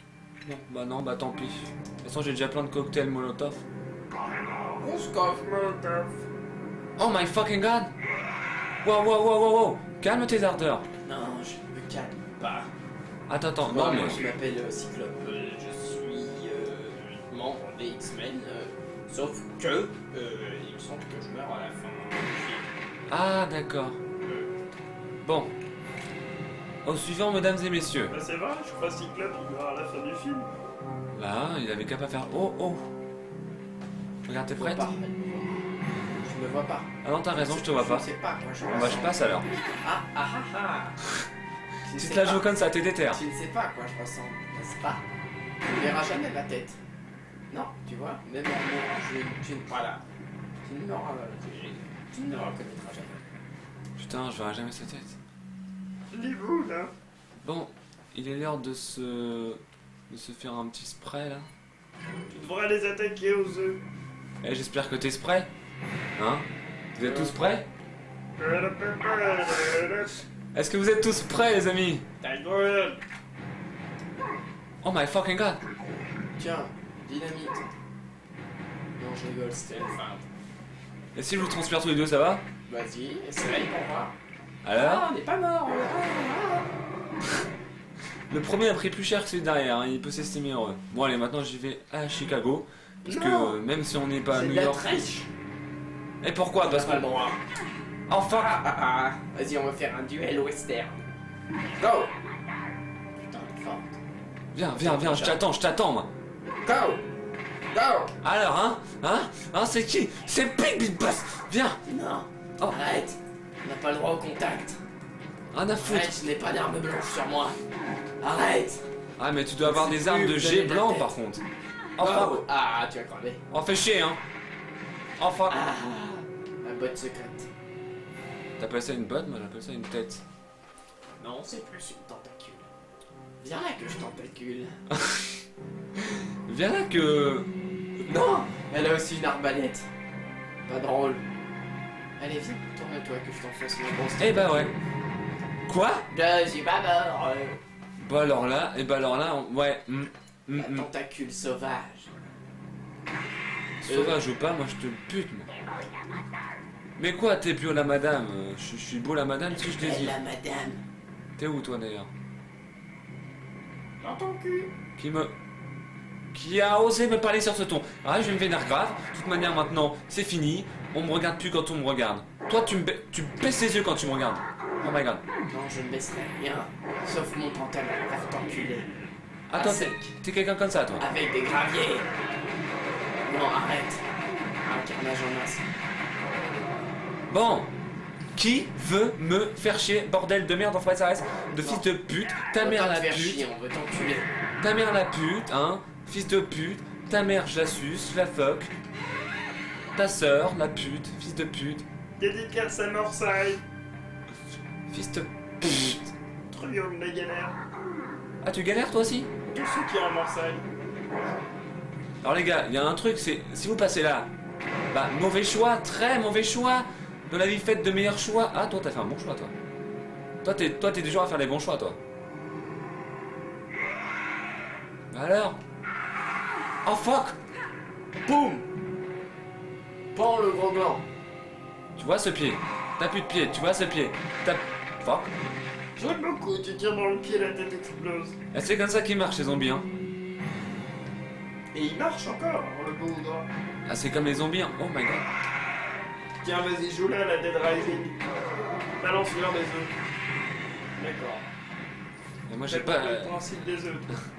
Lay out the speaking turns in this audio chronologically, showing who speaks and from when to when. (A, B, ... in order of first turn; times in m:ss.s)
0:00.4-0:03.6 A
0:04.8-0:06.1 B
0:07.0-0:07.9 A
0:08.8-0:10.8 A
0:11.0-0:12.7 B
0:13.3-0:14.3 A
0:13.6-0:22.7 B
0:23.1-0:24.0 A
0:25.2-0:25.5 A
0:26.8-0:28.1 A
0:28.1-0:30.5 C
0:31.1-0:32.8 A
0:34.2-0:34.9 A
0:34.5-0:35.6 B
0:36.2-0:39.2 B
0:37.0-0:38.0 A
0:38.7-0:39.4 A
0:39.8-0:41.0 B
0:41.8-0:42.5 B
0:41.9-0:43.2 A
0:43.1-0:45.0 B
0:45.6-0:46.8 B
0:47.5-0:50.0 B
0:50.6-0:53.2 B
0:54.0-0:55.2 A
0:56.1-0:56.9 C
0:57.4-1:01.5 A
1:02.3-1:03.8 C
1:04.4-1:05.5 A
1:06.2-1:07.7 A
1:07.0-1:07.3 B
1:08.4-1:10.1 C
1:10.5-1:12.0 A
1:12.2-1:13.0 C
1:14.8-1:15.6 A
1:16.4-1:17.7 B
1:19.0-1:20.2 B
1:21.1-1:22.4 A
1:22.7-1:24.1 B
1:24.6-1:25.1 A
1:24.7-1:26.7 B
1:28.3-1:35.0 A
1:33.0-1:33.6 B
1:34.3-1:35.3 B
1:36.2-1:37.2 A
1:36.6-1:37.4 B
1:38.1-1:38.6 A
1:38.3-1:41.0 B
1:41.8-1:42.1 B
1:43.2-1:44.0 B
1:44.5-1:46.1 A
1:44.7-1:45.4 B
1:46.6-1:47.0 B
1:47.7-1:48.1 B
1:48.2-1:51.8 A
1:51.8-1:54.8 B
1:55.5-1:56.2 A
1:55.8-1:57.6 B
1:58.2-1:58.8 B
1:59.2-2:01.4 A
1:59.6-2:01.1 B
2:02.0-2:02.4 A
2:02.0-2:03.4 B
2:03.5-2:04.2 A
2:05.2-2:05.6 A
2:05.5-2:07.5 B
2:08.6-2:10.2 A
2:11.2-2:12.7 B
2:13.4-2:14.8 B
2:14.9-2:15.2 A
2:16.0-2:17.5 A
2:18.0-2:19.9 B
2:20.6-2:21.2 B
2:22.2-2:24.7 B
2:24.2-2:24.7 A
2:25.6-2:26.0 A
2:26.1-2:27.6 B
2:28.0-2:30.9 A
2:30.5-2:32.1 B
2:33.8-2:35.5 A
2:33.8-2:34.2 B
2:37.0-2:40.2 A
2:39.5-2:40.8 B
2:41.4-2:42.1 A
2:44.0-2:44.7 B
2:45.0-2:45.3 A
2:46.3-2:55.2 A
2:55.5-2:58.9 B
2:59.5-3:01.0 A
2:59.5-3:00.1 B
3:01.0-3:02.1 B
3:03.2-3:04.0 B
3:04.6-3:05.6 B
3:07.3-3:07.7 A
3:08.3-3:13.4 A
3:11.6-3:11.8 B
3:12.5-3:14.3 B
3:14.6-3:18.7 A
3:19.9-3:21.8 A
3:22.2-3:23.6 C
3:24.9-3:26.1 A
3:26.5-3:27.5 C
3:28.4-3:29.3 A
3:29.4-3:30.6 C
3:32.2-3:34.3 A
3:34.9-3:39.5 A
3:40.4-3:42.0 A
3:45.1-3:45.6 A
3:46.8-3:47.4 A
3:48.2-3:48.6 B
3:50.1-3:51.0 B
3:52.0-3:55.3 A
3:56.0-3:58.4 C
3:58.5-3:59.9 A
4:01.7-4:03.5 C
4:03.8-4:05.2 A
4:06.4-4:08.2 C
4:09.0-4:09.9 C
4:11.0-4:11.5 C
4:12.5-4:13.4 A
4:12.7-4:14.1 C